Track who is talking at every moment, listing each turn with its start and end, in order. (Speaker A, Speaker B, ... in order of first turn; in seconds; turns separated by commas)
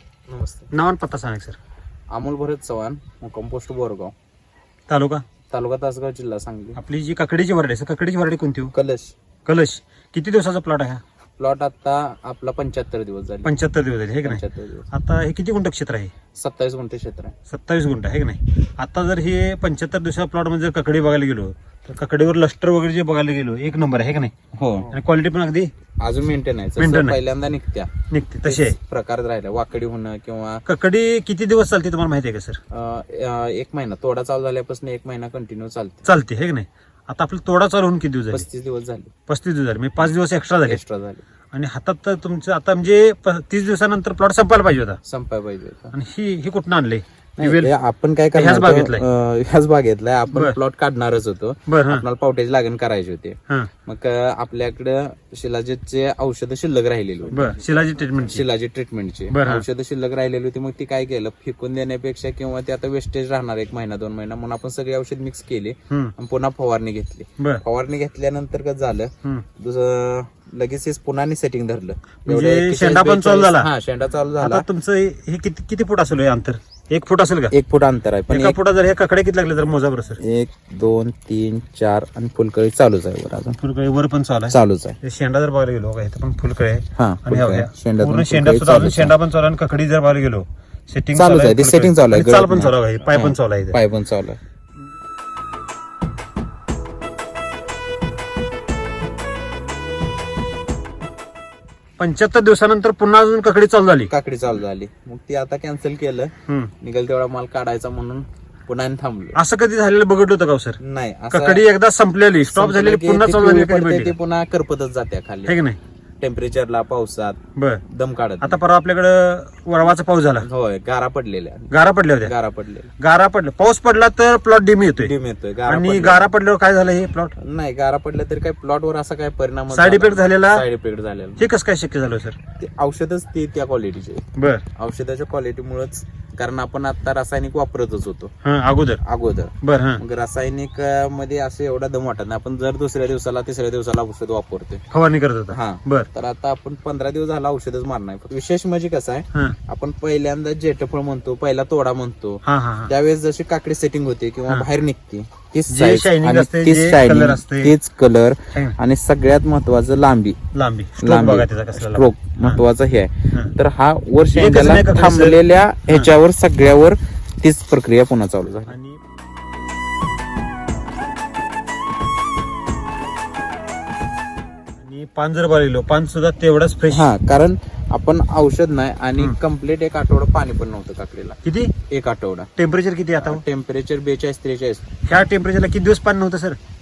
Speaker A: 0.3-0.7, Speaker B: 0.7-1.6, Speaker A: 2.1-4.1, Speaker B: 4.9-5.2, Speaker A: 5.5-6.8, Speaker B: 6.8-8.7, Speaker A: 8.7-9.2, Speaker B: 9.5-11.0, Speaker A: 11.4-13.5, Speaker B: 13.4-16.1, Speaker A: 14.2-14.9, Speaker A: 16.4-17.4, Speaker B: 17.5-24.3, Speaker A: 24.6-24.9, Speaker B: 24.9-25.7, Speaker A: 26.0-27.9, Speaker B: 26.8-27.2, Speaker B: 28.1-28.8, Speaker A: 28.4-30.6, Speaker B: 30.7-32.6, Speaker A: 32.7-36.1, Speaker B: 36.1-38.5, Speaker A: 38.3-39.1, Speaker B: 39.3-40.8, Speaker A: 40.7-41.2, Speaker B: 41.5-45.0, Speaker A: 45.0-45.9, Speaker B: 45.9-47.7, Speaker A: 47.4-57.5, Speaker B: 48.3-49.0, Speaker B: 50.3-50.6, Speaker B: 51.7-52.0, Speaker B: 57.3-58.4, Speaker A: 58.2-74.7, Speaker B: 59.3-59.7, Speaker B: 72.3-73.7, Speaker B: 74.4-77.5, Speaker A: 77.5-78.6, Speaker B: 78.3-80.2, Speaker A: 80.2-83.6, Speaker B: 83.6-93.8, Speaker A: 84.5-85.0, Speaker A: 87.0-89.2, Speaker A: 91.2-94.4, Speaker B: 102.0-104.1, Speaker A: 104.1-109.4, Speaker B: 109.4-110.8, Speaker A: 110.8-111.6, Speaker B: 111.3-114.1, Speaker A: 112.5-115.5, Speaker B: 115.5-115.8, Speaker A: 116.2-117.4, Speaker B: 117.6-117.8, Speaker A: 117.9-118.6, Speaker B: 118.4-120.5, Speaker A: 120.4-121.7, Speaker B: 121.7-122.3, Speaker A: 122.2-122.9, Speaker B: 123.0-125.1, Speaker A: 125.0-126.3, Speaker B: 125.7-127.3, Speaker A: 127.4-131.5, Speaker B: 129.7-130.6, Speaker B: 131.4-132.4, Speaker A: 132.6-138.3, Speaker B: 134.4-134.6, Speaker B: 138.4-139.0, Speaker A: 139.0-144.8, Speaker B: 139.6-140.0, Speaker B: 144.9-146.1, Speaker A: 145.5-160.4, Speaker B: 152.4-152.9, Speaker B: 155.7-157.7, Speaker B: 158.5-158.8, Speaker B: 160.5-162.6, Speaker A: 161.0-168.7, Speaker B: 164.3-166.1, Speaker B: 168.7-169.0, Speaker B: 174.8-177.1, Speaker A: 176.9-181.4, Speaker B: 181.4-181.7, Speaker A: 181.9-182.5, Speaker B: 182.6-183.4, Speaker A: 183.2-184.8, Speaker B: 185.1-186.6